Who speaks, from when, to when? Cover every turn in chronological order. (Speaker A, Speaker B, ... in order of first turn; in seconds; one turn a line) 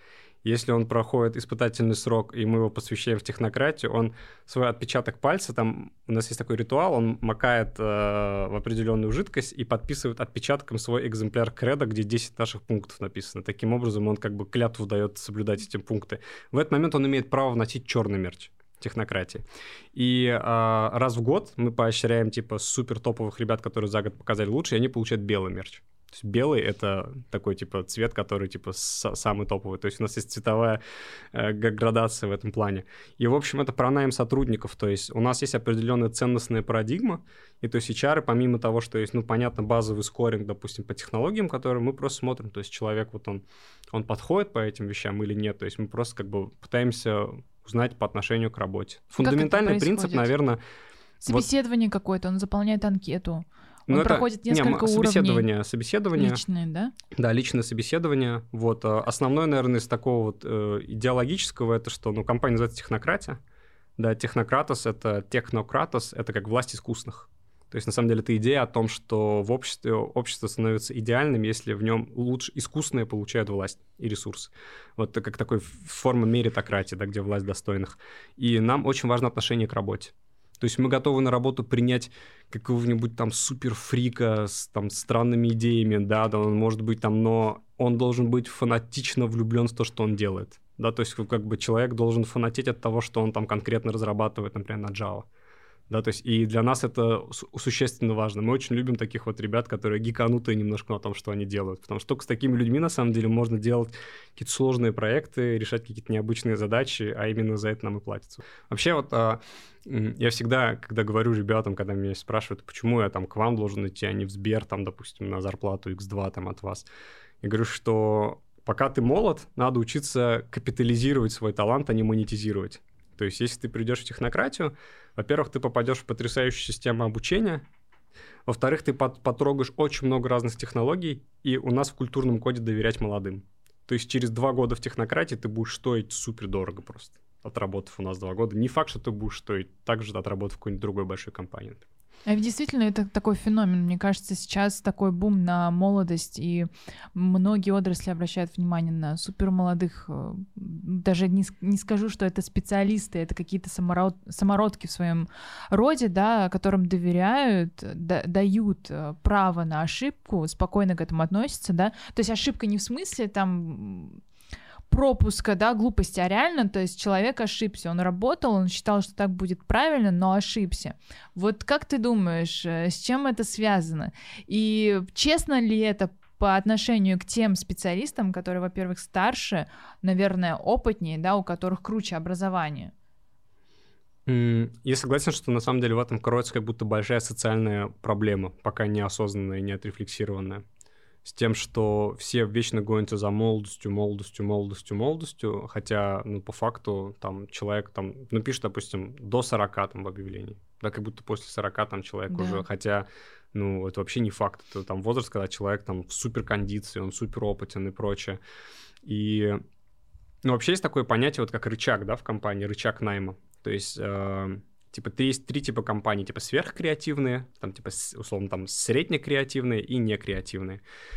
Speaker A: 0.4-30.8
Speaker A: 31.3-50.6
Speaker B: 49.2-50.3
Speaker B: 51.2-55.5
Speaker A: 53.9-56.4
Speaker B: 56.1-56.9
Speaker A: 57.1-63.4
Speaker A: 64.0-95.3
Speaker A: 95.9-116.9
Speaker A: 117.4-127.6
Speaker A: 128.4-141.8
Speaker B: 142.2-164.2
Speaker B: 164.9-182.9
Speaker A: 184.2-190.6
Speaker A: 191.2-208.4
Speaker B: 202.3-202.6
Speaker A: 209.0-209.6
Speaker A: 210.4-220.8